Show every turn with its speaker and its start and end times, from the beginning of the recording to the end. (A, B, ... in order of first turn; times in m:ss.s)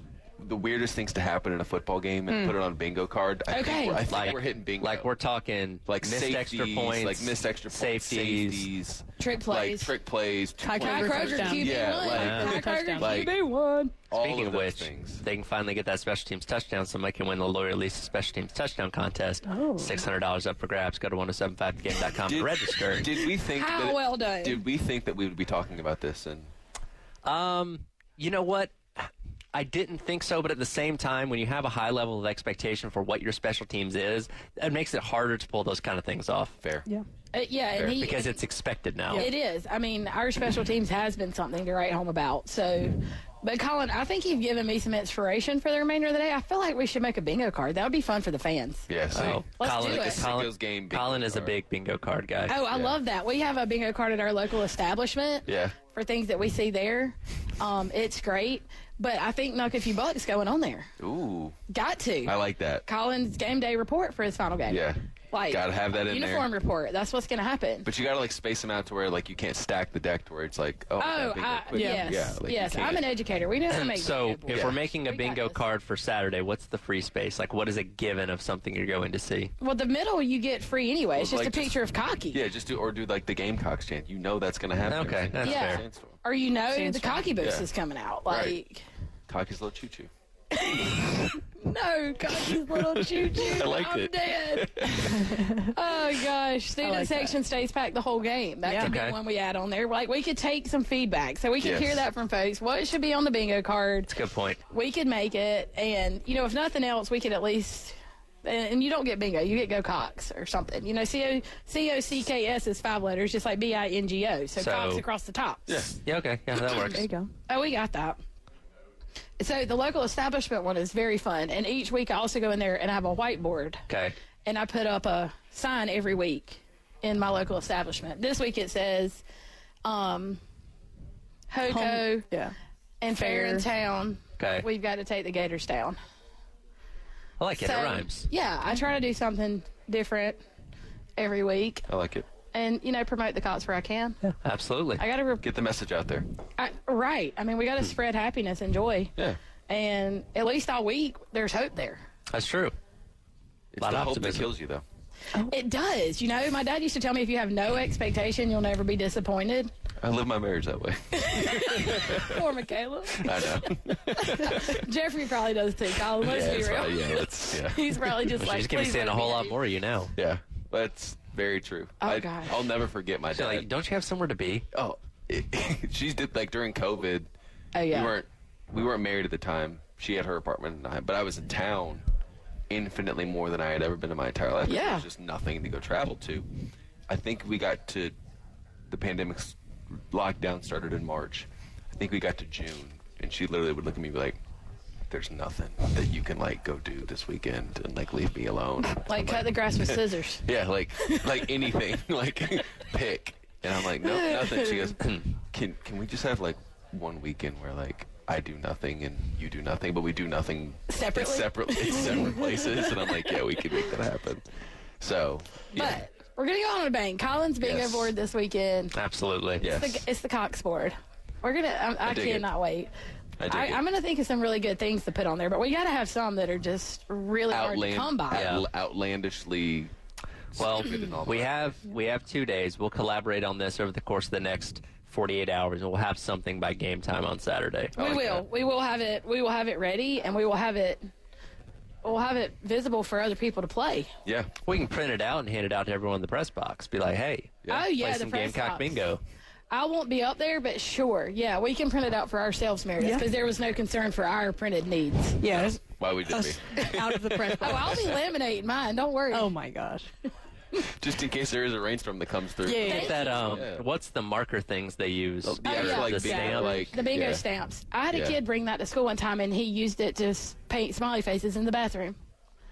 0:00.4-0:05.1 A
0:02.3-0:02.6 B
0:03.5-0:04.0 C
0:04.1-0:08.7 D
0:05.9-0:13.3 A
0:09.2-0:10.0 C
0:10.6-0:13.3 B
0:10.7-0:14.0 C
0:12.1-0:12.6 D
0:14.1-0:15.2 A
0:14.1-0:23.2 D
0:19.5-0:20.0 B
0:22.3-0:26.5 A
0:23.2-0:24.6 C
0:27.2-0:36.6 D
0:36.6-0:36.9 A
0:37.3-0:38.4 C
0:37.9-0:39.3 D
0:39.1-0:50.3 C
0:48.9-0:51.6 A
0:49.1-0:52.6 D
0:52.5-1:00.9 C
0:52.7-0:53.0 A
0:55.4-0:55.8 A
1:01.0-1:01.6 A
1:01.7-1:07.9 C
1:02.2-1:02.8 A
1:04.7-1:06.5 A
1:07.8-1:13.1 A
1:11.0-1:15.6 C
1:11.7-1:12.3 B
1:13.7-1:19.5 D
1:14.5-1:14.8 A
1:19.6-1:22.4 C
1:21.2-1:21.8 A
1:22.3-1:26.2 A
1:24.9-1:25.8 D
1:25.4-1:28.8 C
1:26.7-1:27.3 B
1:27.4-1:27.7 A
1:28.3-1:28.6 A
1:29.3-1:30.1 A
1:30.5-1:44.1 C
1:32.3-1:35.4 A
1:35.0-1:35.7 B
1:36.8-1:37.4 B
1:38.6-1:39.0 B
1:38.8-1:39.2 D
1:41.6-1:42.0 A
1:44.1-1:44.6 D
1:44.7-1:55.8 C
1:54.6-1:55.0 D
1:55.7-1:56.0 A
1:56.0-1:57.0 D
1:56.9-1:57.3 B
1:57.5-1:58.2 C
1:59.4-2:03.8 C
2:03.9-2:04.1 D
2:04.4-2:09.2 C
2:09.8-2:10.4 C
2:11.5-2:12.3 C
2:11.6-2:12.5 B
2:13.0-2:16.0 C
2:13.1-2:13.7 B
2:14.4-2:14.7 D
2:17.4-2:18.3 D
2:17.6-2:20.4 C
2:21.2-2:21.9 C
2:21.9-2:22.3 A
2:22.5-2:24.2 C
2:24.2-2:25.0 D
2:25.0-2:25.4 C
2:25.4-2:26.3 A
2:26.6-2:29.1 C
2:29.7-2:32.0 C
2:32.3-2:32.7 D
2:33.7-2:34.8 A
2:33.8-2:34.5 D
2:35.4-2:39.7 C
2:40.0-2:42.4 A
2:41.1-2:49.6 C
2:43.1-2:44.8 A
2:46.2-2:48.0 A
2:48.4-2:50.1 D
2:50.2-2:53.7 A
2:52.0-2:52.7 C
2:53.3-2:54.6 D
2:54.7-2:57.3 A
2:57.7-2:58.1 C
2:57.9-3:02.0 A
3:02.7-3:06.5 A
3:04.7-3:05.0 C
3:07.1-3:08.1 A
3:08.9-3:09.6 A
3:10.1-3:14.4 A
3:15.1-3:34.4 A
3:18.9-3:20.4 C
3:21.0-3:21.6 C
3:24.0-3:25.0 C
3:25.0-3:25.2 D
3:30.9-3:33.6 C
3:35.0-3:36.0 A
3:35.7-3:39.0 C
3:37.6-3:38.1 A
3:39.0-3:39.7 D
3:39.6-3:40.0 A
3:39.6-3:42.9 C
3:42.0-3:42.5 A
3:43.4-3:43.8 A
3:43.5-3:48.6 C
3:47.5-3:49.9 A
3:48.3-3:48.6 D
3:50.6-3:51.8 A
3:50.6-3:58.0 D
3:58.0-3:58.4 A
3:58.0-4:01.1 C
4:02.0-4:04.1 C
4:04.2-4:04.5 A
4:04.6-4:09.2 D
4:07.6-4:07.9 A
4:07.7-4:09.0 C
4:09.7-4:15.4 C
4:13.0-4:13.3 B
4:15.4-4:18.2 B
4:15.4-4:18.2 A
4:17.6-4:19.5 C
4:19.3-4:20.1 B
4:20.8-4:23.8 A
4:22.6-4:23.4 B
4:22.8-4:23.6 C
4:22.8-4:26.9 D
4:25.4-4:27.4 A
4:25.6-4:32.2 C
4:26.4-4:26.9 B
4:28.1-4:28.4 A